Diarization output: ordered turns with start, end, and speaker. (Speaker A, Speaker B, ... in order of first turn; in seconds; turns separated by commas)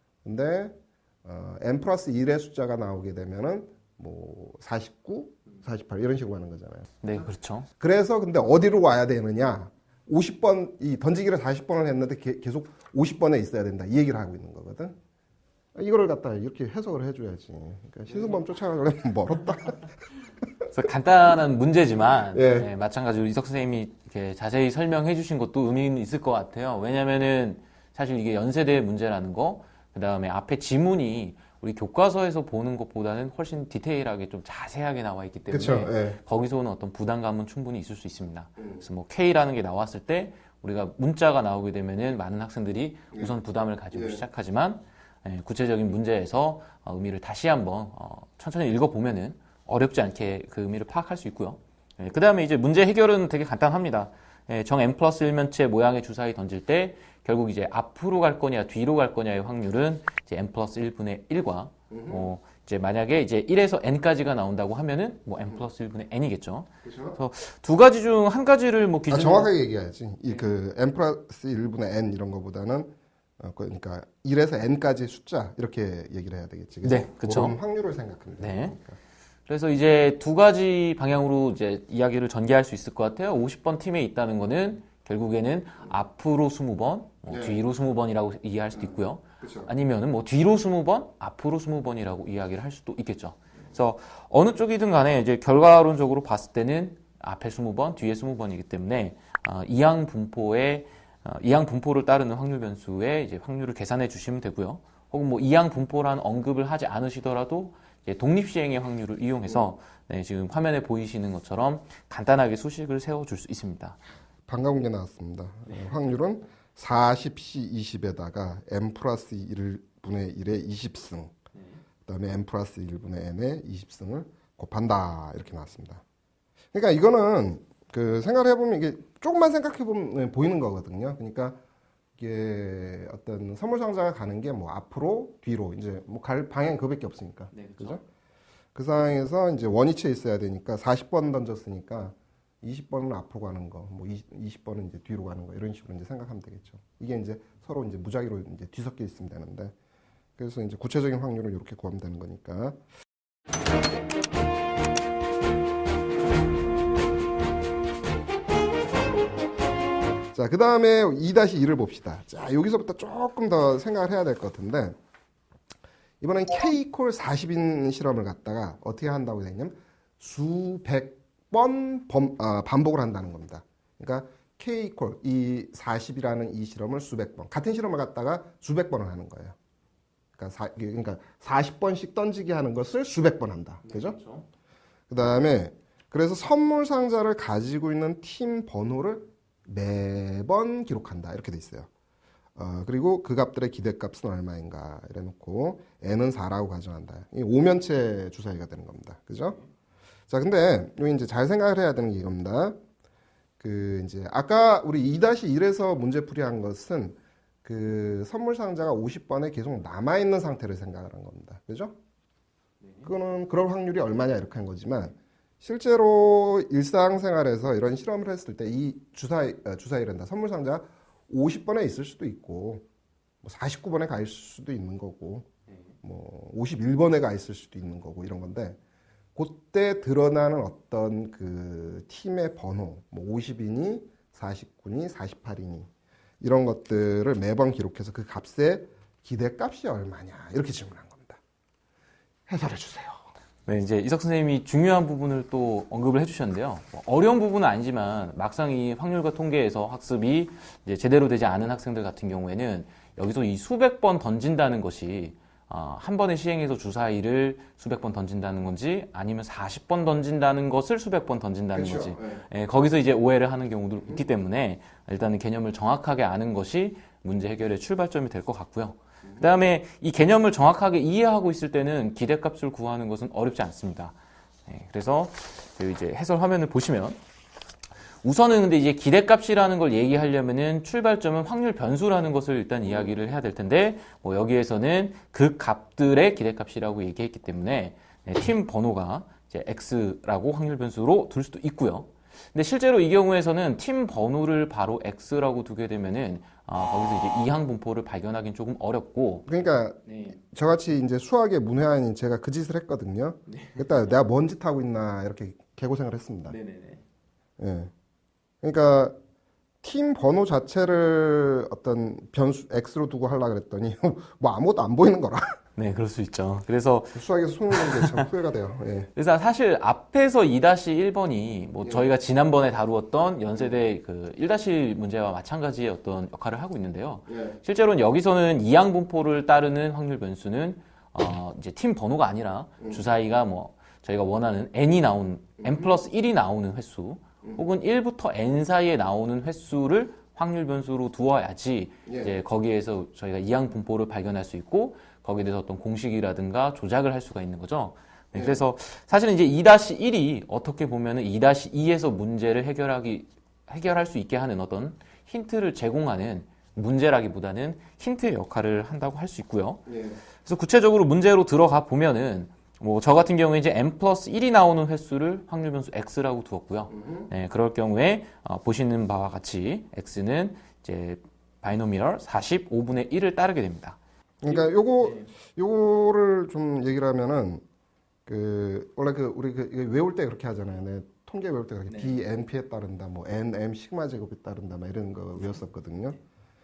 Speaker A: 0.2-6.9, Speaker B: 7.0-7.7, Speaker A: 7.8-14.9, Speaker A: 15.7-19.9, Speaker B: 20.7-69.5, Speaker A: 22.3-22.7, Speaker A: 35.5-36.2, Speaker A: 43.9-44.2, Speaker A: 61.9-62.3, Speaker A: 66.8-67.2, Speaker A: 69.1-79.0, Speaker B: 76.8-77.6, Speaker B: 78.4-78.8, Speaker B: 79.5-114.0, Speaker A: 87.3-87.6, Speaker A: 88.8-89.7, Speaker A: 114.5-121.3, Speaker B: 121.5-121.8, Speaker A: 122.0-126.0, Speaker A: 126.7-131.6, Speaker A: 132.2-138.0, Speaker B: 137.5-138.0, Speaker A: 138.7-149.7, Speaker A: 150.4-152.8, Speaker A: 160.3-165.0, Speaker A: 166.2-179.6, Speaker A: 180.3-184.2, Speaker B: 183.8-184.4, Speaker A: 185.1-191.9, Speaker A: 192.6-199.6, Speaker A: 200.3-202.8, Speaker A: 203.6-211.9, Speaker A: 213.0-222.8, Speaker A: 223.4-225.5, Speaker A: 226.0-228.8, Speaker A: 229.3-235.9, Speaker A: 236.4-241.4, Speaker A: 242.5-243.3, Speaker B: 243.7-274.1, Speaker A: 261.7-262.4, Speaker B: 274.7-277.2, Speaker B: 278.2-299.5, Speaker A: 282.9-283.1, Speaker A: 299.5-306.6, Speaker B: 300.1-300.4, Speaker B: 303.5-303.8, Speaker B: 306.5-307.0, Speaker A: 307.6-307.9, Speaker A: 308.6-309.1, Speaker A: 309.8-315.4, Speaker B: 315.8-318.2, Speaker A: 317.1-319.1, Speaker B: 319.1-374.0, Speaker A: 327.3-327.6, Speaker A: 335.6-335.9, Speaker A: 342.1-342.3, Speaker A: 359.9-360.2, Speaker A: 366.9-367.3, Speaker A: 374.4-377.6, Speaker B: 374.5-375.3, Speaker A: 378.2-386.2, Speaker B: 381.9-382.2